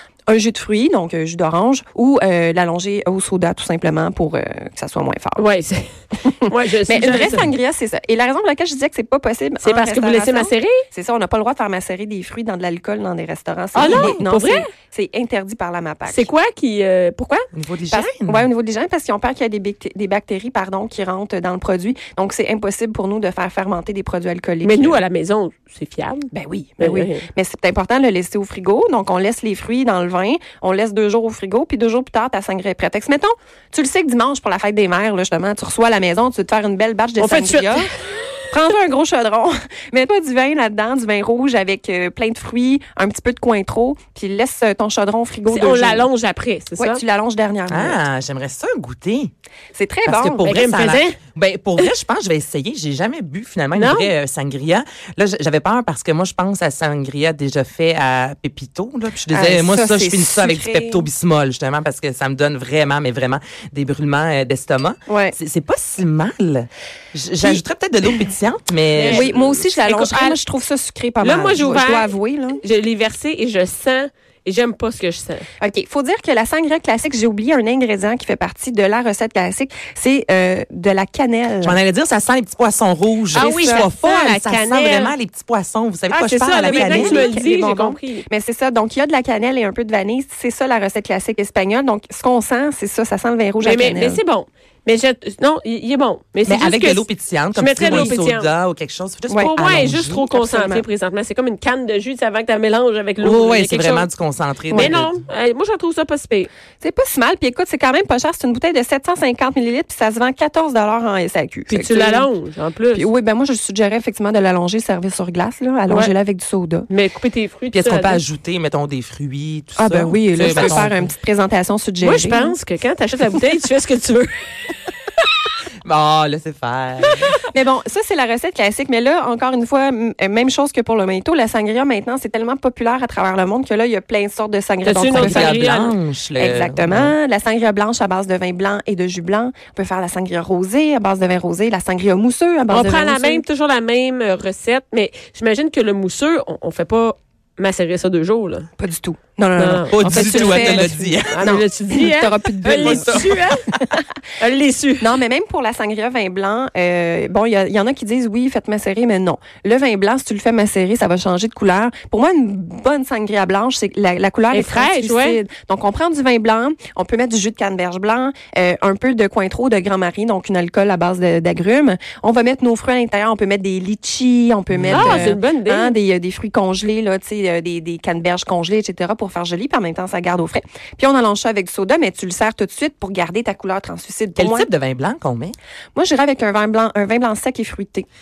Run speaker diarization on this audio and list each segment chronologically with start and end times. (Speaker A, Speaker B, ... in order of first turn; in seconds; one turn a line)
Speaker A: 0.3-5.4
Speaker B: 5.4-7.5
Speaker A: 6.2-16.3
Speaker B: 9.6-10.8
Speaker B: 13.7-14.7
Speaker C: 13.8-14.2
Speaker B: 16.1-17.5
Speaker C: 17.5-18.5
Speaker A: 17.9-25.0
Speaker B: 24.6-27.3
Speaker A: 26.3-37.9
Speaker B: 37.2-37.9
Speaker A: 38.5-46.1
Speaker B: 45.5-47.0
Speaker A: 46.8-48.0
Speaker C: 47.7-49.3
Speaker A: 49.8-50.5
Speaker C: 50.1-69.6
Speaker B: 50.4-51.2
Speaker B: 53.8-54.1
Speaker A: 59.3-61.0
Speaker A: 65.1-65.3
Speaker B: 68.9-70.4
Speaker A: 69.0-72.6
Speaker B: 71.2-72.1
Speaker B: 72.6-75.5
Speaker A: 75.6-81.8
Speaker C: 81.6-87.3
Speaker B: 83.3-85.1
Speaker A: 83.3-83.9
Speaker B: 86.1-88.3
Speaker A: 86.5-94.2
Speaker B: 93.6-98.5
Speaker C: 96.5-100.2
Speaker A: 97.8-98.1
Speaker A: 99.3-100.8
Speaker B: 99.4-104.1
Speaker C: 103.2-105.2
Speaker B: 104.7-106.5
Speaker A: 106.8-112.3
Speaker B: 111.7-113.1
Speaker A: 112.9-116.9
Speaker B: 116.9-118.2
Speaker C: 117.7-121.1
Speaker A: 119.8-122.6
Speaker B: 120.4-120.9
Speaker B: 122.0-124.3
Speaker C: 125.8-127.3
Speaker A: 127.5-135.7
Speaker B: 134.8-135.9
Speaker C: 135.1-137.2
Speaker A: 136.4-143.4
Speaker B: 142.7-148.7
Speaker A: 148.8-153.3
Speaker B: 149.6-153.7
Speaker C: 149.9-151.6
Speaker C: 152.7-153.8
Speaker B: 154.4-155.1
Speaker A: 155.0-184.7
Speaker B: 164.5-165.4
Speaker C: 174.7-175.3
Speaker B: 174.9-175.9
Speaker C: 184.4-185.6
Speaker A: 185.9-188.1